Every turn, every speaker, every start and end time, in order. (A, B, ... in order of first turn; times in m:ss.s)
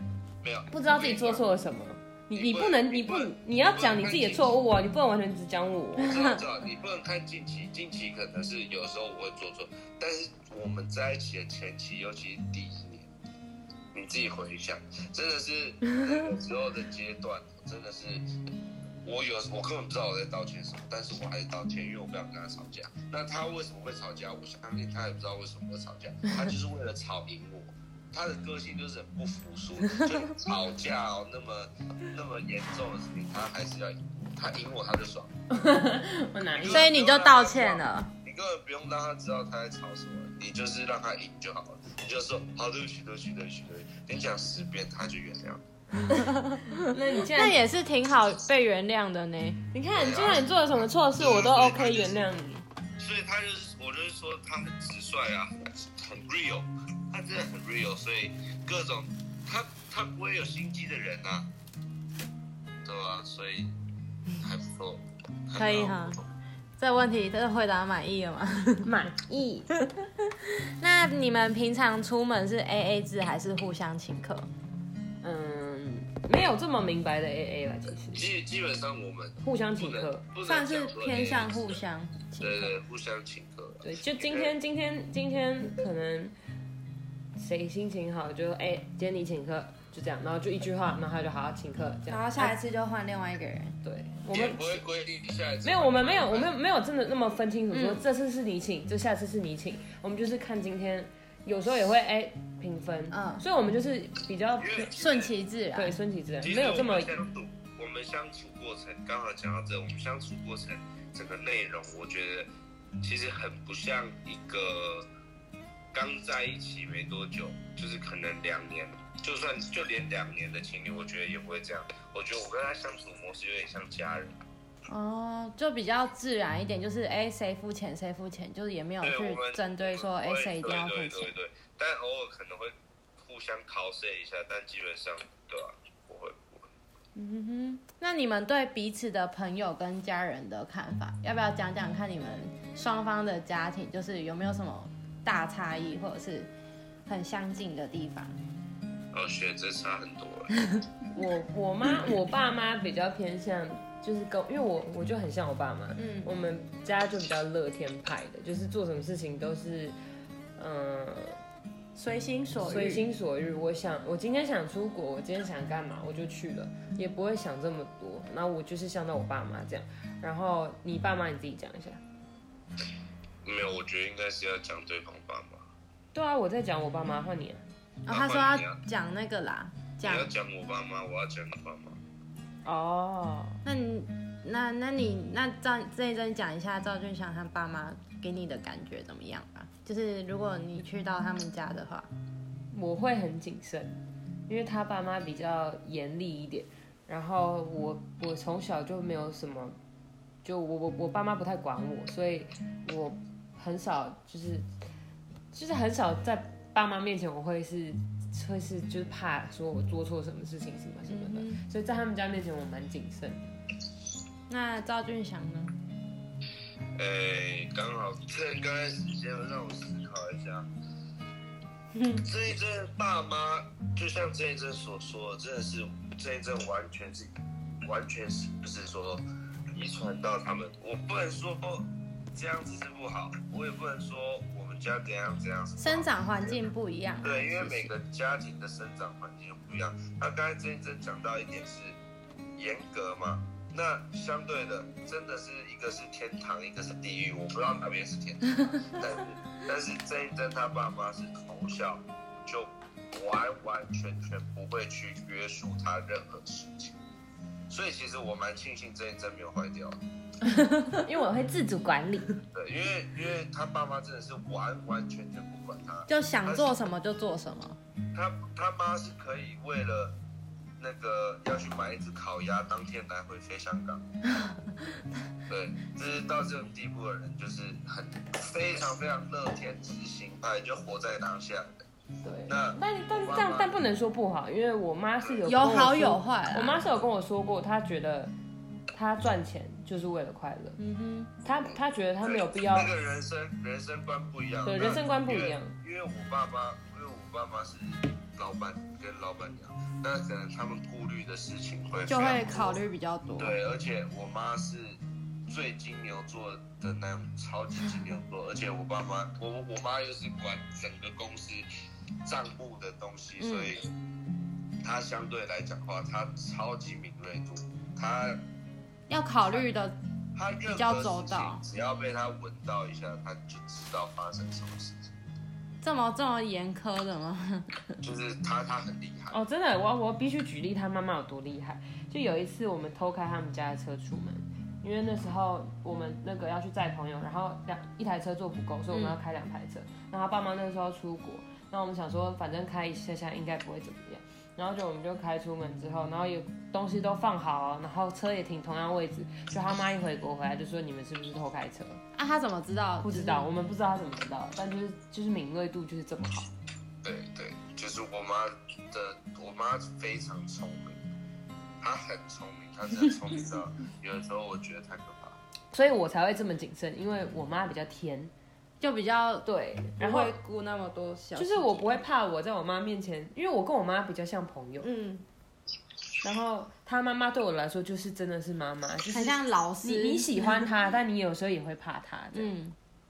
0:00.4-0:01.4 A
0:00.7-0:06.4 B
0:02.3-0:04.5 A
0:06.0-0:13.1 A
0:13.9-0:18.2 A
0:19.0-0:35.3 A
0:35.5-0:36.9 B
0:36.6-0:45.6 A
0:36.7-0:38.1 C
0:46.2-0:47.6 B
0:46.2-0:46.7 C
0:47.3-0:49.6 C
0:49.7-0:52.6 B
0:49.9-0:50.5 A
0:51.1-0:52.2 A
0:53.0-1:01.5 A
1:02.8-1:03.7 A
1:04.4-1:06.3 A
1:05.6-1:06.2 C
1:06.8-1:08.9 C
1:08.8-1:09.7 B
1:10.8-1:14.5 C
1:15.2-1:18.3 B
1:18.1-1:21.8 A
1:19.4-1:20.2 B
1:20.4-1:22.7 C
1:22.4-1:24.5 A
1:23.8-1:26.3 B
1:27.4-1:32.6 B
1:32.1-1:33.8 C
1:33.8-1:34.8 B
1:34.3-1:36.5 A
1:35.6-1:44.9 B
1:37.7-1:38.0 C
1:43.1-1:43.4 C
1:44.6-1:45.3 A
1:44.9-1:46.0 C
1:45.7-1:47.2 B
1:46.4-1:52.5 A
1:53.0-1:55.1 A
1:55.9-2:04.4 A
2:04.9-2:11.3 C
2:09.0-2:16.7 A
2:17.2-2:26.5 C
2:27.0-2:28.4 C
2:29.1-2:30.5 A
2:31.1-2:40.0 B
2:36.0-2:36.3 C
2:40.6-2:41.4 B
2:42.0-2:43.0 C
2:42.6-2:52.0 B
2:53.4-2:55.7 A
2:56.1-2:57.6 B
2:58.0-3:00.3 C
2:58.1-2:58.8 A
3:00.0-3:02.0 A
3:02.6-3:03.6 B
3:03.6-3:12.1 C
3:12.7-3:19.8 B
3:20.4-3:24.7 B
3:25.5-3:33.5 B
3:31.1-3:31.6 C
3:34.5-3:35.8 C
3:37.0-3:40.7 A
3:41.9-3:42.2 C
3:42.2-3:47.3 A
3:47.8-3:56.6 A
3:55.8-3:57.9 C
3:57.2-4:02.0 A
4:02.6-4:17.0 A
4:17.7-4:20.0 A
4:20.9-4:22.4 B
4:22.5-4:26.7 A
4:26.1-4:27.8 C
4:28.1-4:30.2 A
4:30.8-4:34.0 A
4:34.2-4:35.0 C
4:35.5-4:41.8 A
4:42.2-4:48.3 B
4:42.5-4:43.7 A
4:45.4-4:46.8 C
4:48.9-4:50.8 B
4:50.8-4:51.3 C
4:51.4-4:52.9 B
4:51.6-5:02.8 A
4:54.6-4:55.7 B
5:02.1-5:03.6 C
5:03.4-5:11.6 A
5:12.2-5:13.9 A
5:13.4-5:13.7 C
5:14.8-5:18.4 A
5:19.1-5:20.0 C
5:20.3-5:25.1 A
5:20.7-5:21.6 C
5:25.8-5:27.9 C
5:28.0-5:29.4 A
5:29.3-5:52.0 B
5:38.9-5:39.2 C
5:52.1-5:53.5 C
5:53.0-5:56.5 B
5:57.0-6:01.1 A
6:01.8-6:05.4 A
6:05.7-6:08.3 B
6:08.8-6:09.4 C
6:09.4-6:10.4 B
6:10.0-6:12.0 C
6:11.4-6:14.9 B
6:14.8-6:15.2 C
6:16.2-6:22.5 B
6:19.1-6:20.7 C
6:22.3-6:22.8 C